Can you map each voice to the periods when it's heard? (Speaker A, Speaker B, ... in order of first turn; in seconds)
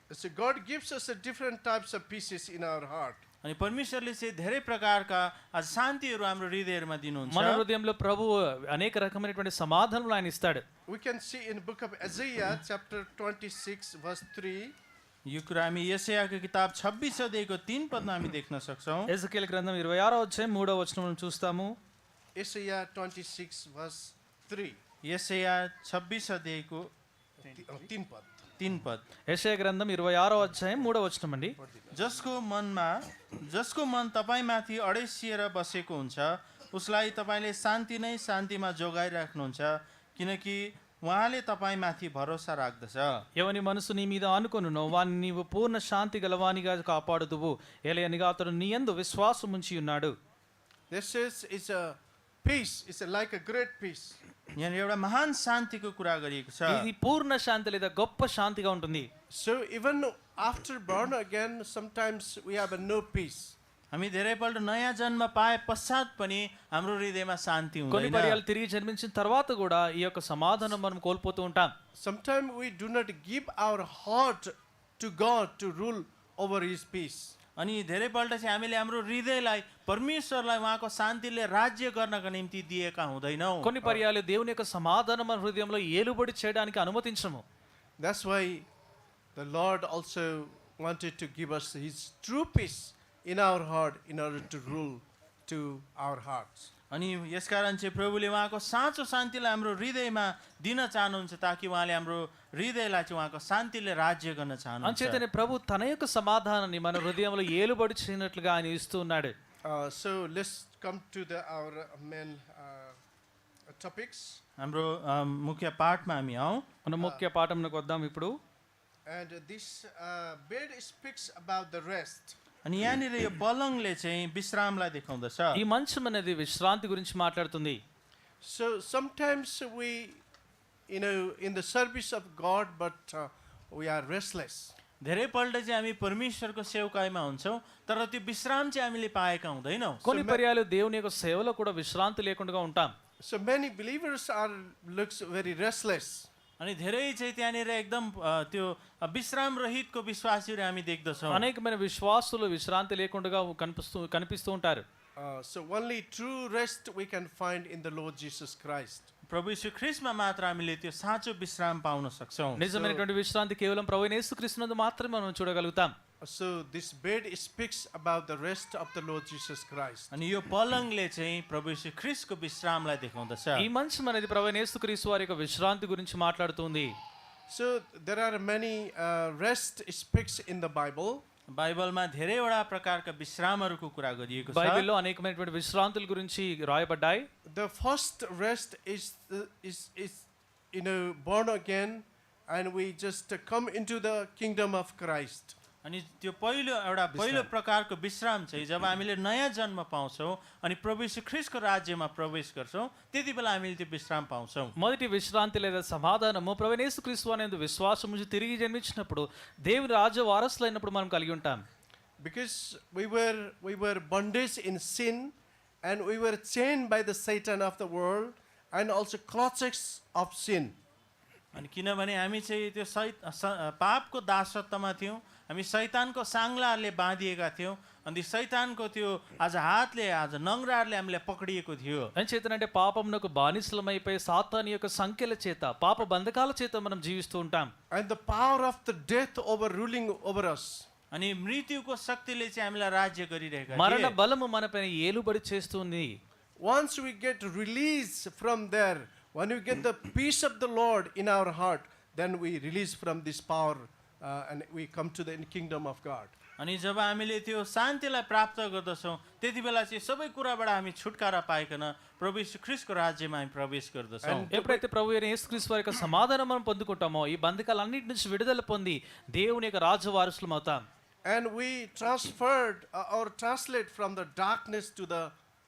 Speaker A: 0.1-3.2, 10.9-14.8, 22.4-24.8, 27.4-28.4, 31.6-31.9, 50.9-54.2, 59.3-63.5, 71.9-77.3, 88.0-88.7, 89.3-96.7, 109.7-113.0, 113.7-114.4, 117.0-117.2, 119.1-122.4, 128.4-130.2, 130.9-134.7, 140.1-140.4, 143.2-146.3, 155.2-159.1, 162.7-163.0, 166.2-170.1, 177.5-181.2, 187.4-195.6, 197.1-197.5, 212.2-220.8, 237.9-240.9, 246.6-256.3, 264.2-264.8, 271.2-275.3
Speaker B: 3.4-7.6, 15.3-19.1, 25.1-26.9, 28.6-29.0, 31.9-43.2, 54.6-56.9, 63.9-68.4, 77.6-83.7, 96.9-105.2, 114.6-116.7, 122.6-125.6, 135.0-140.0, 146.6-151.5, 159.3-162.6, 170.1-173.7, 181.5-184.9, 195.8-204.8, 221.5-232.1, 241.1-244.1, 256.6-264.5
Speaker C: 7.3-10.6, 19.1-21.7, 29.3-31.6, 43.4-50.1, 56.7-59.1, 67.9-71.7, 83.6-87.4, 104.8-109.3, 116.8-118.3, 125.5-127.8, 140.0-142.9, 151.3-154.8, 162.6-165.9, 173.6-176.9, 184.5-187.3, 204.8-211.6, 232.2-237.7, 243.7-246.2, 264.5-270.8